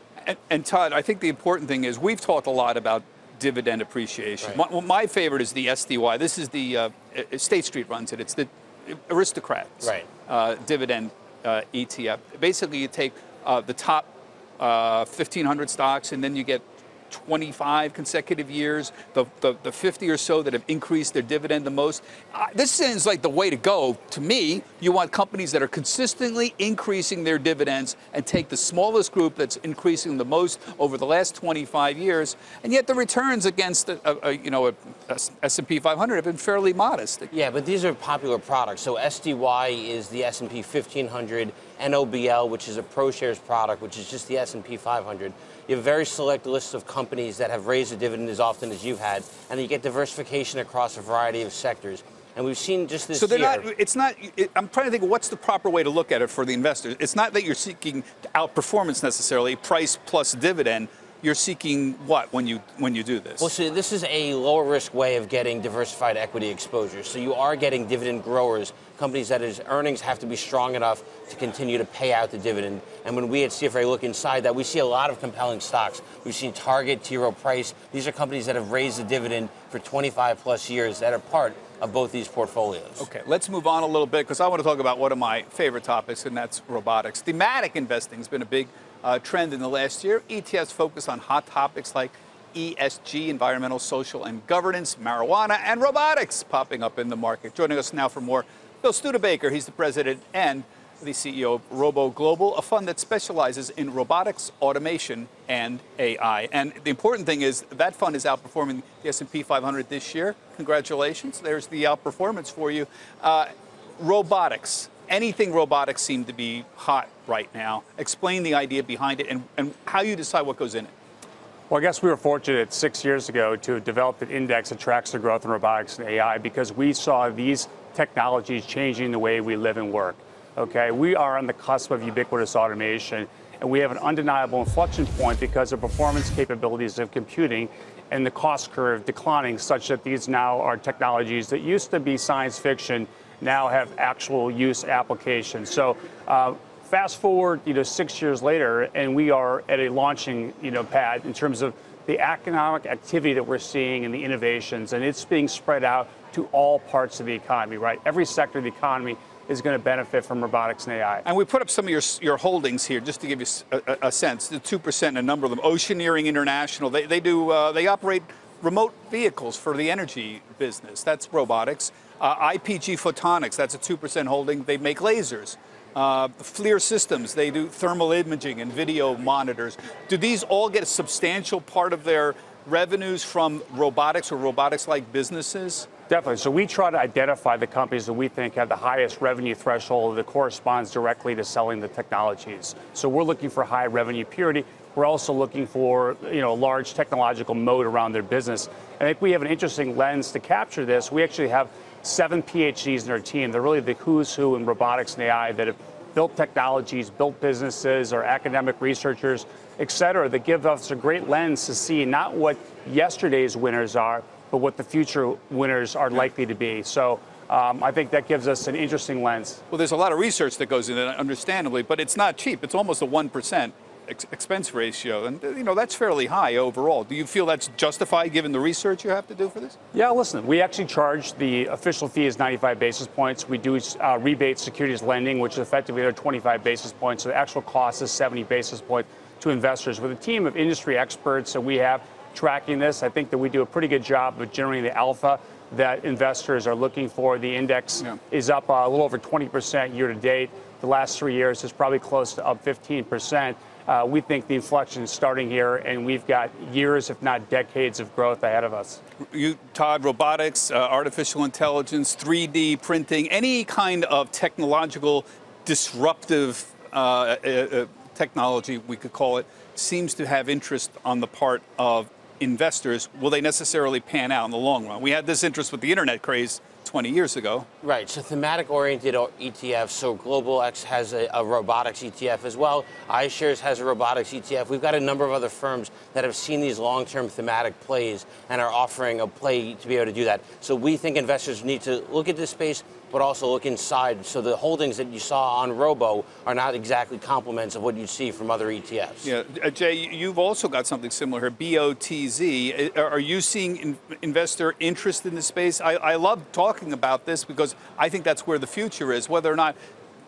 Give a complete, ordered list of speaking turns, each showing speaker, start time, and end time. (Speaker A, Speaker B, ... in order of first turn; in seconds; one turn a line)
Speaker A: 0.2-37.3
Speaker B: 9.8-10.1
Speaker B: 37.3-53.7
Speaker A: 53.1-63.5
Speaker B: 63.4-83.1
Speaker A: 83.0-120.9
Speaker C: 121.7-161.2
Speaker A: 161.2-185.9
Speaker C: 186.1-219.6
Speaker A: 219.7-229.8
Speaker C: 229.9-259.0
Speaker A: 259.3-277.7
Speaker B: 277.8-299.3
Speaker A: 299.2-309.8